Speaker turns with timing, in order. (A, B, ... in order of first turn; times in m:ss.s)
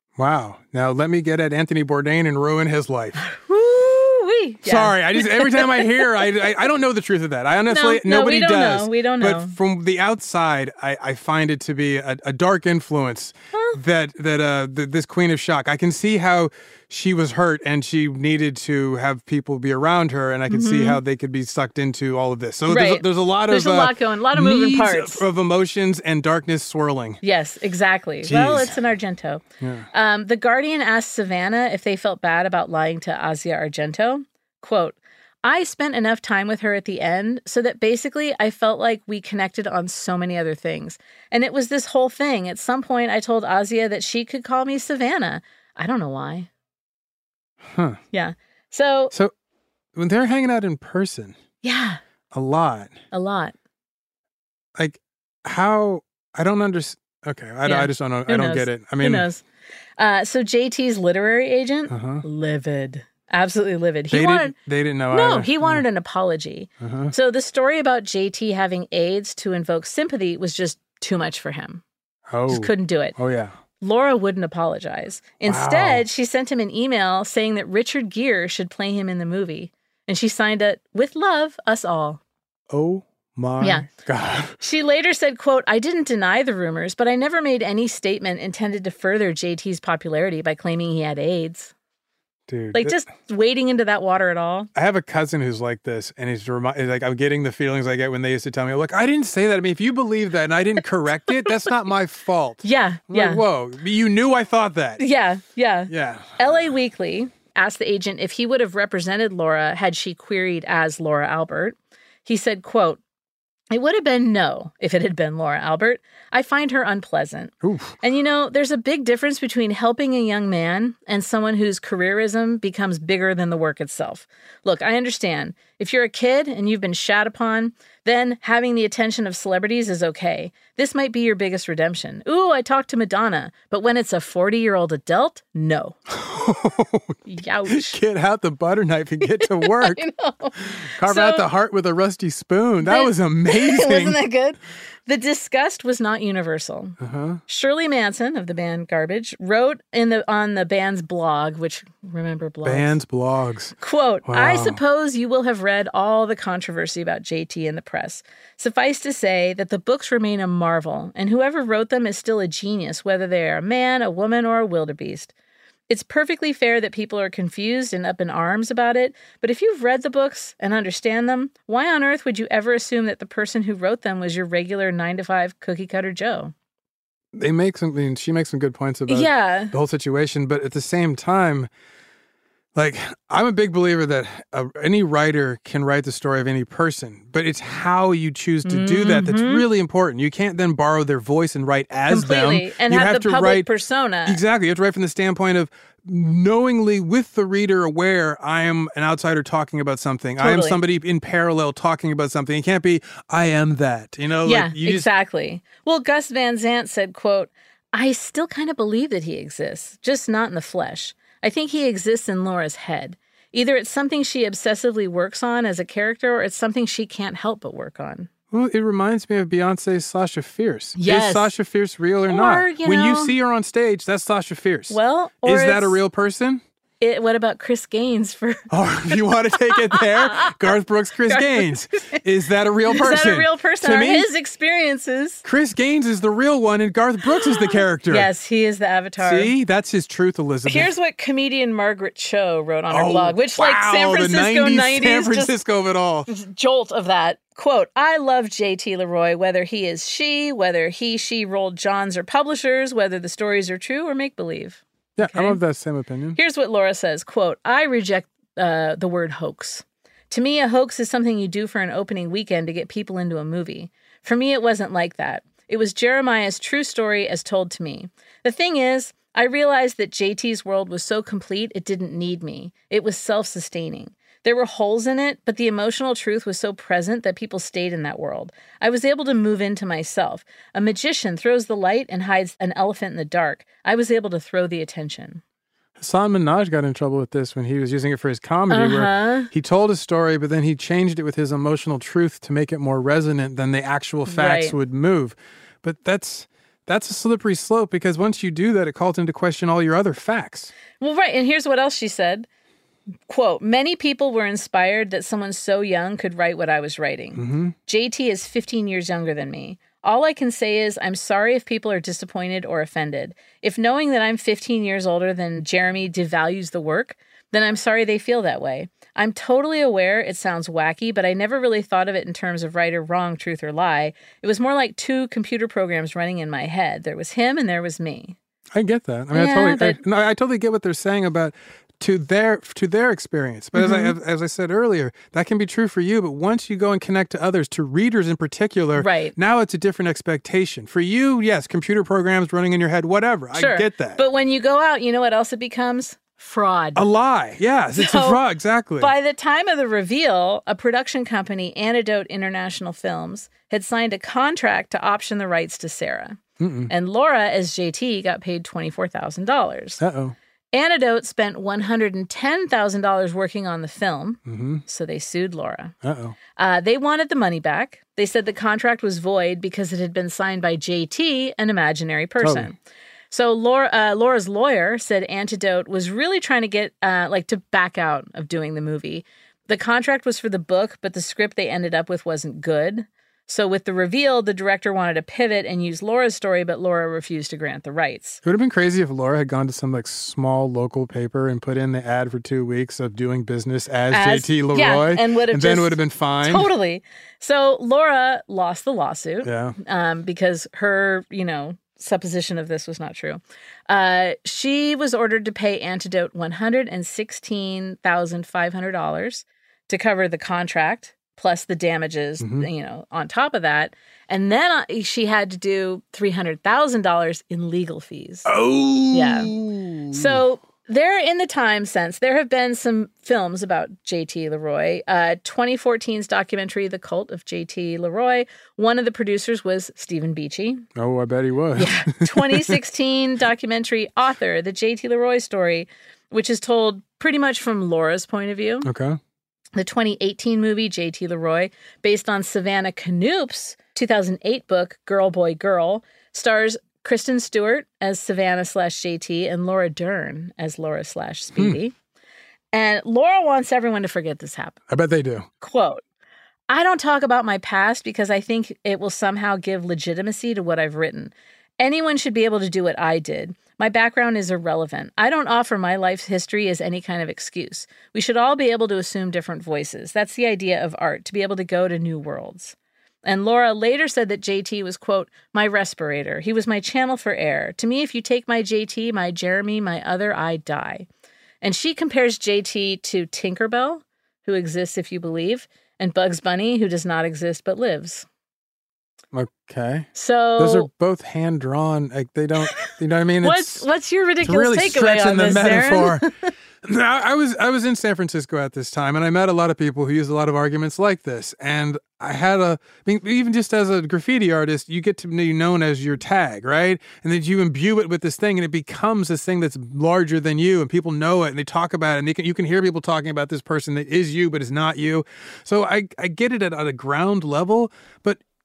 0:00.2-0:03.2 A
0:03.2-0:06.3 B
0:04.6-0:27.2 A
0:07.7-0:09.6 B
0:13.5-0:13.8 B
0:20.5-0:21.0 B
0:22.7-0:25.2 B
0:27.2-0:46.5 B
0:28.2-0:28.8 A
0:29.6-0:29.9 A
0:47.6-0:48.0 A
0:48.1-0:49.1 B
0:50.0-0:51.4 A
0:51.6-0:52.0 B
0:52.3-0:53.0 A
0:53.1-0:53.6 B
0:54.8-0:59.3 A
0:57.6-0:59.4 B
1:00.0-1:04.6 B
1:01.9-1:02.2 A
1:04.1-1:05.8 A
1:05.1-1:11.8 B
1:06.8-1:07.1 A
1:12.3-1:13.6 A
1:12.5-1:13.2 B
1:13.8-1:22.2 B
1:15.4-1:16.0 A
1:22.7-1:24.6 A
1:23.6-1:23.9 B
1:24.6-1:31.7 B
1:32.5-1:33.0 A
1:32.7-1:34.7 B
1:34.8-1:45.0 A
1:42.6-1:43.4 B
1:45.0-1:53.0 B
1:45.9-1:46.7 A
1:53.7-2:16.0 B
1:57.6-1:58.0 A
2:16.1-2:17.2 A
2:17.3-2:18.0 B
2:17.7-2:20.0 A
2:19.2-2:21.5 B
2:20.8-2:24.2 A
2:22.8-2:33.0 B
2:27.0-2:27.4 A
2:32.6-2:34.8 A
2:33.8-2:45.3 B
2:45.9-2:56.5 B
2:57.3-3:01.7 A
2:59.1-2:59.7 B
3:02.8-3:13.7 A
3:08.6-3:09.7 B
3:12.1-3:14.4 B
3:14.3-3:25.1 A
3:20.4-3:20.8 B
3:24.4-3:38.3 B
3:38.5-3:46.6 A
3:41.0-3:41.5 B
3:42.3-3:43.4 B
3:44.9-3:46.0 B
3:47.0-3:50.7 B
3:48.7-3:54.3 A
3:51.3-3:52.2 B
3:52.9-3:55.4 B
3:55.4-3:58.3 A
3:57.3-3:59.5 B
3:59.2-4:00.9 A
4:00.7-4:05.5 B
4:02.9-4:06.3 A
4:06.3-4:15.6 B
4:15.2-4:16.4 A
4:16.4-4:45.4 B
4:46.0-5:00.7 A
4:48.7-4:49.5 B
4:54.3-4:54.8 B
5:01.0-5:02.5 B
5:03.3-5:28.4 B
5:07.4-5:07.8 A
5:28.7-5:44.2 A
5:29.3-5:30.0 B
5:33.8-5:34.1 B
5:39.0-5:39.4 B
5:43.5-5:47.1 B
5:47.0-5:49.1 A
5:47.9-5:48.4 B
5:49.0-6:00.0 B
5:56.6-5:56.9 A
6:00.0-6:00.4 A
6:00.7-6:06.0 B
6:04.5-6:04.8 A
6:06.0-6:06.4 A
6:06.6-6:12.8 B
6:12.4-6:12.7 A
6:13.3-6:28.4 B
6:28.4-6:36.7 A
6:34.1-6:58.5 B
6:39.4-6:39.8 A
6:52.4-6:52.7 A
6:58.4-7:00.4 A
6:59.1-6:59.5 B
7:00.1-7:10.8 B
7:11.0-7:12.8 A
7:11.8-7:18.9 B
7:18.8-7:19.2 A
7:19.8-7:31.9 B
7:32.7-7:34.8 B
7:34.9-7:35.5 A
7:35.6-7:36.0 B
7:36.7-8:01.1 B
8:01.6-8:08.3 B
8:09.3-8:13.9 A
8:10.1-8:10.9 B
8:13.4-8:16.5 B
8:14.4-8:16.2 A
8:16.8-8:38.5 A